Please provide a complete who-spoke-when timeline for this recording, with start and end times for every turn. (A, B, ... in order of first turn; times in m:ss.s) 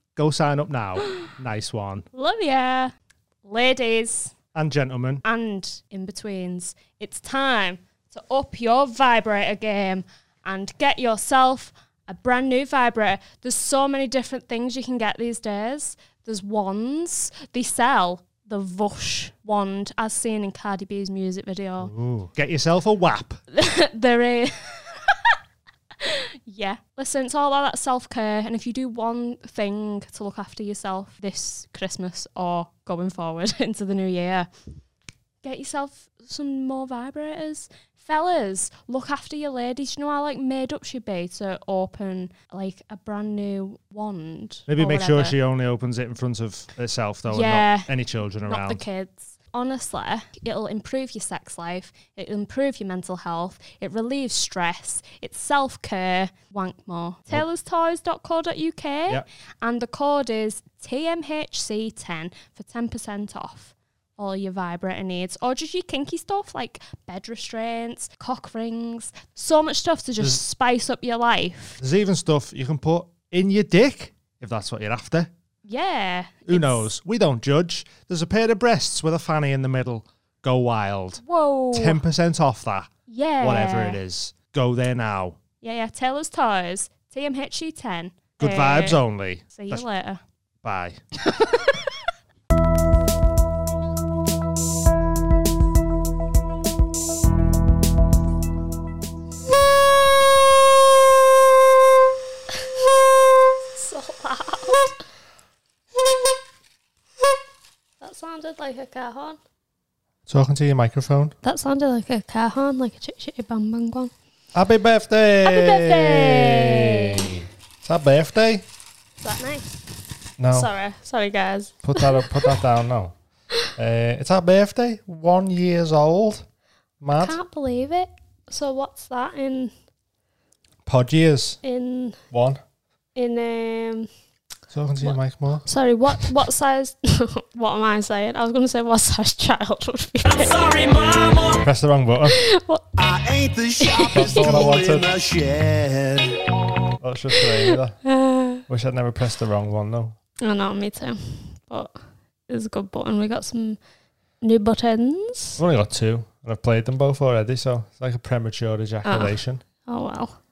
0:00.2-0:02.0 A
0:02.1-0:02.9 B
0:03.4-0:04.3 B
0:04.5-0:05.2 A
0:05.2-0:21.9 B
0:21.8-0:23.4 A
0:23.5-0:25.3 B
0:26.0-0:34.5 B
0:35.4-0:45.3 B
0:44.7-0:48.8 A
0:47.3-0:47.9 B
0:48.4-1:11.8 B
1:11.8-1:15.3 A
1:15.6-1:16.9 B
1:16.4-1:25.4 A
1:21.2-1:22.0 B
1:23.1-1:24.0 B
1:25.6-1:29.0 B
1:28.4-1:29.8 A
1:29.5-1:30.2 B
1:30.6-1:31.0 A
1:43.7-1:44.9 B
1:48.0-1:49.4 B
1:50.3-1:51.3 A
1:51.4-1:54.1 B
1:54.5-1:58.6 A
1:55.4-1:57.3 B
1:59.2-1:59.8 B
2:00.4-2:00.7 A
2:00.5-2:02.3 B
2:01.8-2:03.1 A
2:03.7-2:06.4 A
2:07.0-2:07.4 A
2:07.2-2:09.7 B
2:10.8-2:11.6 A
2:11.6-2:12.2 B
2:12.3-2:12.6 A
2:13.1-2:14.1 B
2:14.7-2:16.3 A
2:15.0-2:20.7 B
2:21.5-2:22.4 A
2:22.3-2:22.8 B
2:23.0-2:26.4 C
2:23.8-2:24.6 B
2:24.1-2:25.1 A
2:27.0-2:28.0 A
2:27.6-2:28.6 B
2:28.6-2:30.2 A
2:30.4-2:32.0 B
2:32.5-2:33.8 B
2:34.4-2:35.6 B
2:35.6-2:39.6 A
2:39.0-2:40.4 B